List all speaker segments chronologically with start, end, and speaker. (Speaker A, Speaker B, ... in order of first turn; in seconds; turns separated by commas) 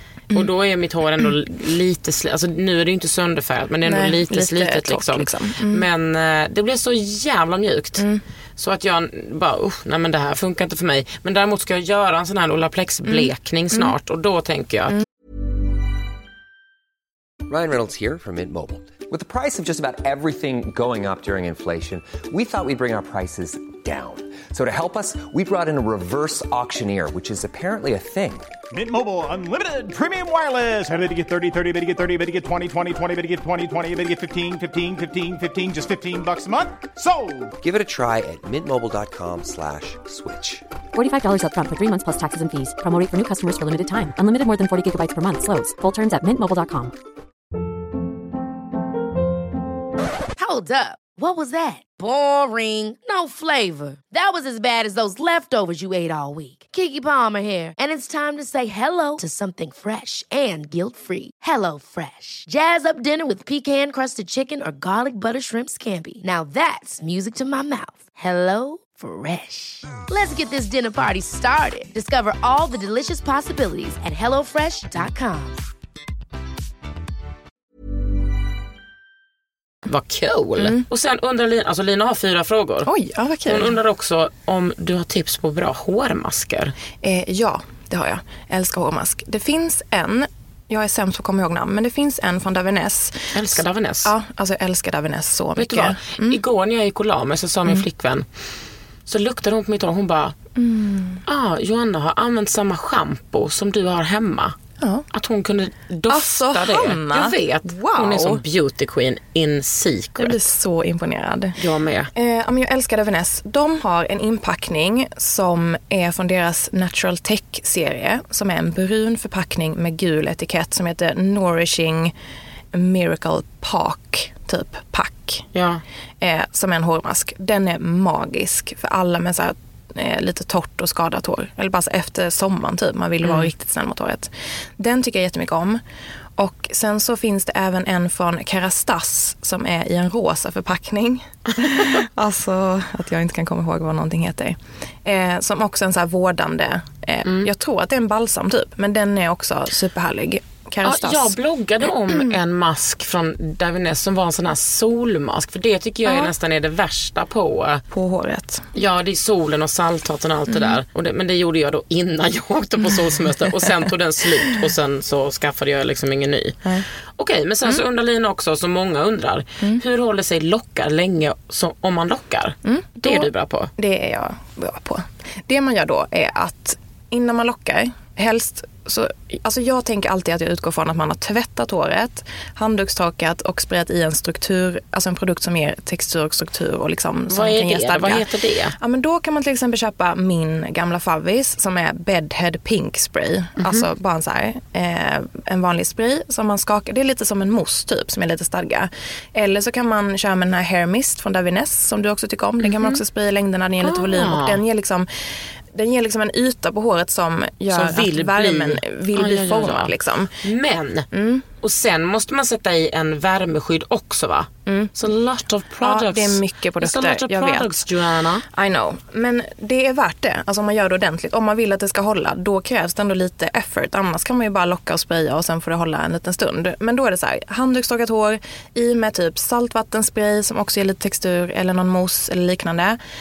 Speaker A: 0.3-8.1, Speaker B: 3.8-5.9, Speaker B: 8.0-8.2, Speaker A: 8.6-15.0, Speaker B: 13.1-13.9, Speaker C: 17.5-28.5, Speaker D: 28.7-37.5, Speaker C: 37.6-40.6, Speaker E: 40.9-46.9, Speaker F: 50.4-75.6, Speaker A: 79.9-82.9, Speaker B: 80.6-80.8, Speaker B: 82.8-83.8, Speaker A: 83.5-86.7, Speaker B: 87.0-96.4, Speaker A: 93.3-94.1, Speaker A: 95.6-98.3, Speaker A: 99.1-100.4, Speaker B: 100.5-101.2, Speaker A: 101.3-104.6, Speaker B: 104.8-105.1, Speaker A: 105.1-110.4, Speaker B: 106.1-108.4, Speaker B: 110.2-111.6, Speaker A: 111.6-112.1, Speaker B: 112.1-122.1, Speaker B: 122.7-125.5, Speaker A: 125.5-125.8, Speaker B: 126.2-135.8, Speaker A: 133.2-133.5, Speaker B: 136.4-151.4, Speaker A: 141.7-141.9, Speaker A: 150.8-157.8, Speaker B: 152.1-152.4, Speaker B: 156.1-156.3, Speaker B: 157.9-158.7, Speaker A: 158.7-166.6, Speaker B: 160.5-160.8, Speaker A: 167.2-173.7, Speaker B: 172.6-210.3, Speaker A: 187.3-188.8, Speaker A: 193.6-193.9, Speaker A: 202.6-203.0, Speaker A: 203.8-204.6, Speaker A: 207.7-211.1, Speaker B: 211.1-211.5, Speaker A: 211.6-218.4, Speaker B: 214.7-215.0, Speaker B: 215.8-217.9, Speaker B: 218.4-233.0